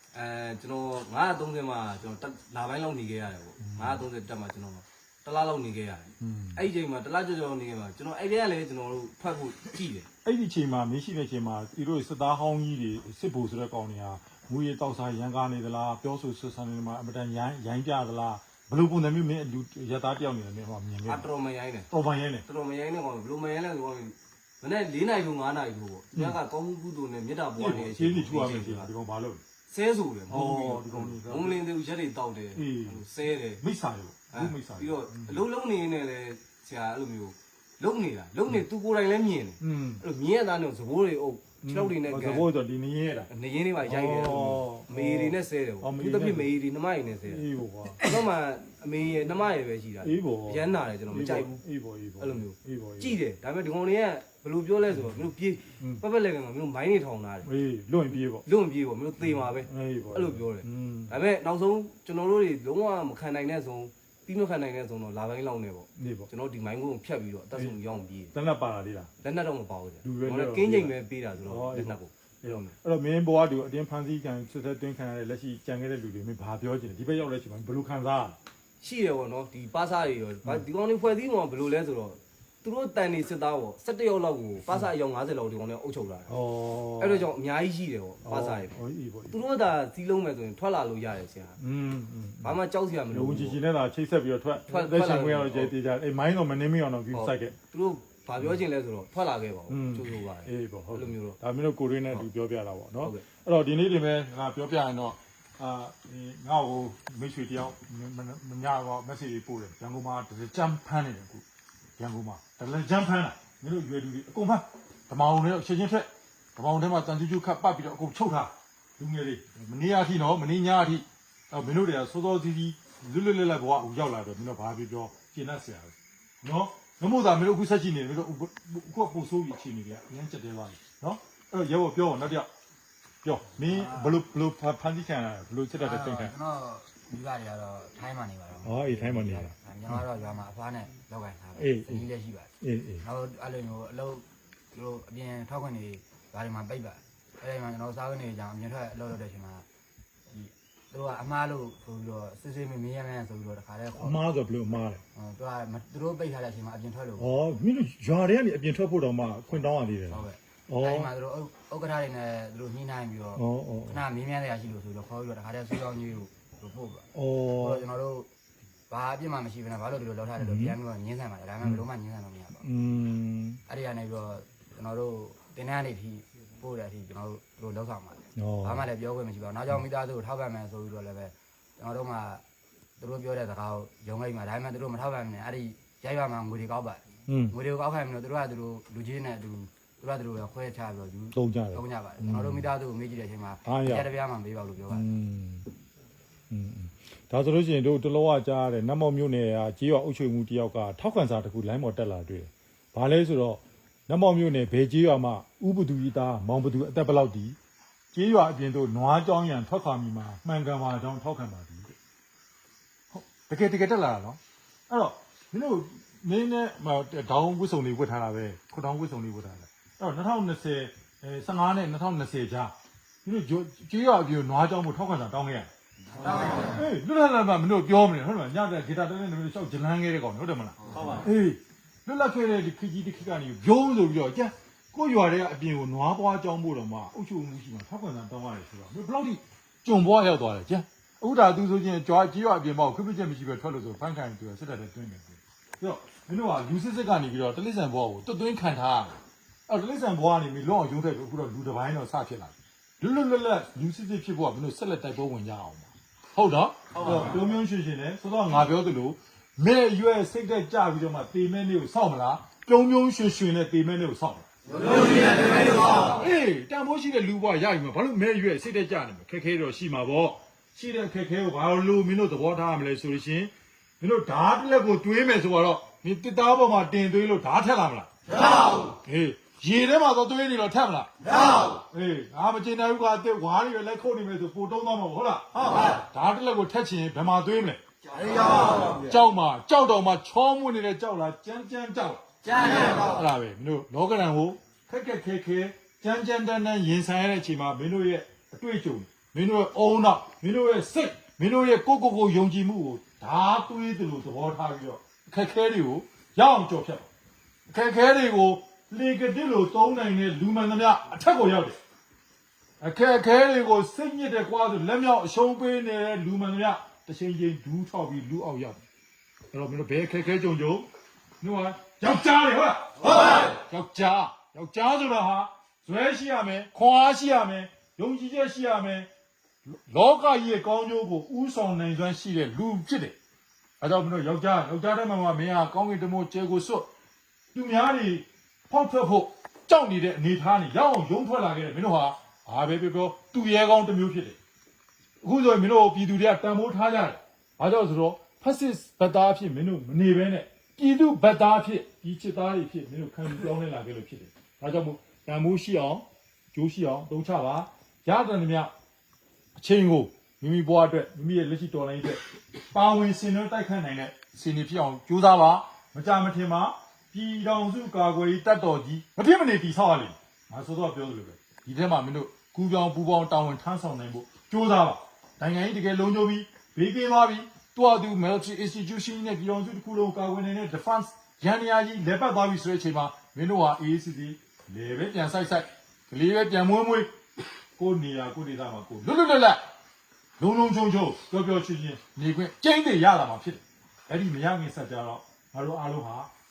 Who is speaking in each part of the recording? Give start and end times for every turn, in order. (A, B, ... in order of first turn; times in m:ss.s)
0:00.1-0:10.1 A
0:03.6-0:04.0 B
0:06.2-0:06.6 B
0:10.2-0:21.3 B
0:21.1-0:21.9 A
0:21.9-0:22.4 B
0:22.4-0:28.9 A
0:27.6-0:29.4 B
0:29.7-0:33.6 A
0:30.3-0:31.6 B
0:32.6-0:33.0 B
0:33.6-0:35.4 B
0:34.3-0:42.5 A
0:39.6-0:40.0 B
0:41.6-0:43.3 B
0:43.3-0:51.6 A
0:43.8-0:46.5 B
0:47.2-0:48.2 B
0:50.0-0:53.2 B
0:52.2-0:57.5 A
0:57.4-0:58.4 B
0:58.4-1:08.3 A
0:59.2-1:01.1 B
1:06.0-1:06.3 B
1:08.3-1:09.1 B
1:09.2-1:12.7 A
1:10.0-1:10.9 B
1:11.4-1:12.0 B
1:12.8-1:18.4 B
1:18.8-1:26.3 A
1:26.3-1:27.3 B
1:27.0-1:31.6 A
1:28.2-1:29.4 B
1:31.6-1:32.6 B
1:32.4-1:33.6 A
1:33.1-1:37.6 B
1:34.7-1:35.8 A
1:37.1-1:41.4 A
1:39.7-1:51.4 B
1:52.0-2:12.5 B
2:13.2-2:16.3 B
2:13.7-2:14.2 C
2:15.8-2:29.7 C
2:18.6-2:20.0 B
2:21.6-2:22.1 B
2:22.6-2:23.0 B
2:30.3-2:34.2 C
2:34.0-2:35.0 B
2:35.1-2:37.3 C
2:37.2-2:41.1 B
2:40.1-2:48.3 C
2:43.4-2:44.0 B
2:47.1-2:47.8 B
2:48.9-2:52.7 C
2:50.4-2:50.8 B
2:52.6-2:53.6 B
2:53.7-3:02.4 C
2:58.4-2:58.9 B
3:03.0-3:15.1 C
3:07.3-3:07.6 B
3:11.3-3:12.7 B
3:13.6-3:14.1 B
3:14.9-3:15.7 B
3:16.5-3:27.6 B
3:28.1-3:32.0 B
3:33.1-3:45.7 B
3:46.2-3:46.7 C
3:46.5-4:24.5 B
3:50.9-3:51.2 C
4:25.6-4:38.1 B
4:38.8-4:47.8 B
4:48.8-5:07.1 B
5:07.7-5:11.8 B
5:12.8-5:18.8 B
5:19.5-5:20.9 B
5:21.4-5:29.1 B
5:29.7-5:33.2 B
5:33.8-5:36.9 B
5:37.5-5:44.4 B
5:45.2-5:58.7 B
5:59.6-6:27.1 B
6:27.8-6:29.6 B
6:30.4-6:36.3 B